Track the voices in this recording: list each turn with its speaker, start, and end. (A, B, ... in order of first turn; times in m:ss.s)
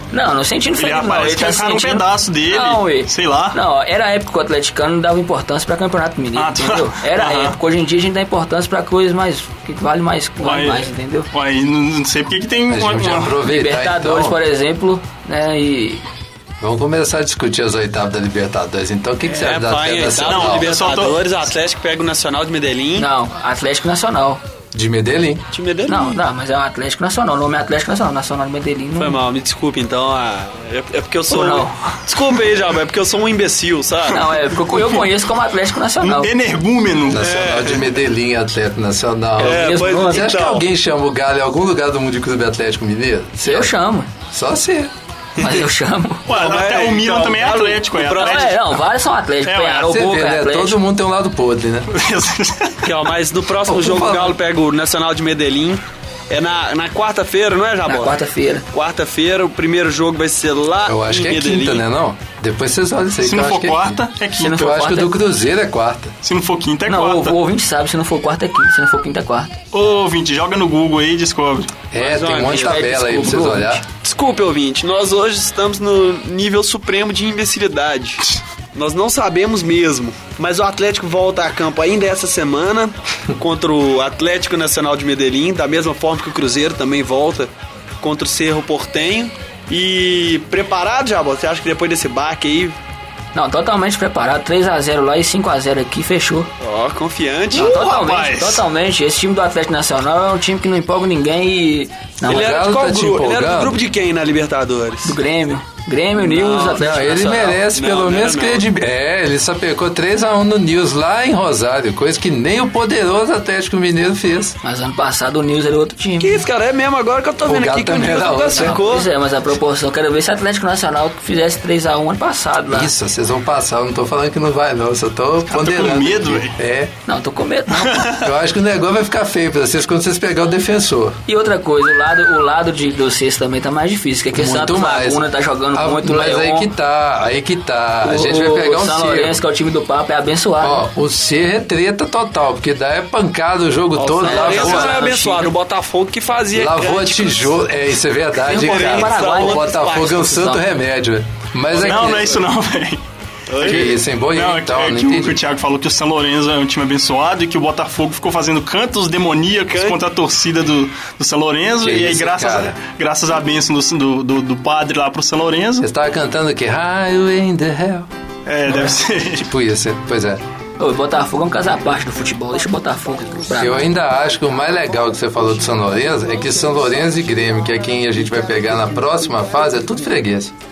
0:00.1-0:11.3 A
0:00.8-0:03.6 B
0:06.4-0:07.6 B
0:10.4-0:13.4 B
0:12.7-0:14.4 C
0:13.4-0:16.0 A
0:16.6-0:20.7 C
0:19.2-0:23.1 D
0:20.2-0:21.2 B
0:23.0-0:24.4 A
0:24.7-0:25.5 C
0:25.5-0:26.2 D
0:25.9-0:29.2 A
0:29.0-0:34.4 D
0:31.3-0:32.0 A
0:34.1-0:36.3 A
0:34.7-0:35.0 B
0:36.0-0:37.3 B
0:37.1-0:43.7 C
0:37.2-0:37.9 D
0:39.4-0:40.3 A
0:39.4-0:40.6 D
0:43.4-0:44.1 A
0:44.3-0:44.9 C
0:45.4-0:46.2 A
0:46.3-0:48.8 B
0:46.3-0:48.5 D
0:48.1-0:50.8 A
0:49.4-0:50.0 B
0:49.8-0:51.9 C
0:51.9-0:52.9 B
0:52.8-0:58.2 D
0:53.6-0:54.4 C
0:57.8-0:58.6 A
0:58.7-1:01.8 D
1:00.8-1:06.1 C
1:03.2-1:04.8 B
1:04.4-1:05.1 A
1:06.2-1:07.4 B
1:06.9-1:09.5 A
1:09.7-1:11.8 B
1:11.9-1:13.8 C
1:12.0-1:12.8 D
1:12.4-1:13.8 A
1:14.0-1:32.8 D
1:33.3-1:36.5 A
1:36.6-1:37.8 D
1:37.5-1:42.5 A
1:37.5-1:38.6 B
1:42.2-1:43.8 C
1:42.2-1:45.2 D
1:45.0-1:47.6 A
1:46.2-1:48.6 D
1:46.7-1:54.6 C
1:54.6-1:56.4 A
1:56.2-1:59.1 D
1:57.4-1:58.8 C
1:58.5-2:02.9 A
2:02.7-2:06.9 C
2:05.5-2:06.6 B
2:07.1-2:08.1 A
2:07.7-2:08.3 B
2:08.2-2:11.2 C
2:11.3-2:16.7 A
2:14.3-2:19.4 C
2:18.0-2:20.8 A
2:20.6-2:25.1 C
2:24.0-2:27.5 D
2:24.2-2:25.5 A
2:26.5-2:32.4 C
2:28.4-2:30.2 D
2:28.4-2:30.6 A
2:31.7-2:32.3 D
2:31.8-2:33.0 B
2:33.5-2:34.0 D
2:33.6-2:45.9 B
2:33.6-2:35.4 C
2:39.7-2:40.0 D
2:41.8-2:42.8 C
2:45.8-2:48.1 C
2:48.4-2:49.5 B
2:49.4-2:50.4 C
2:50.8-2:53.9 A
2:53.5-3:00.5 C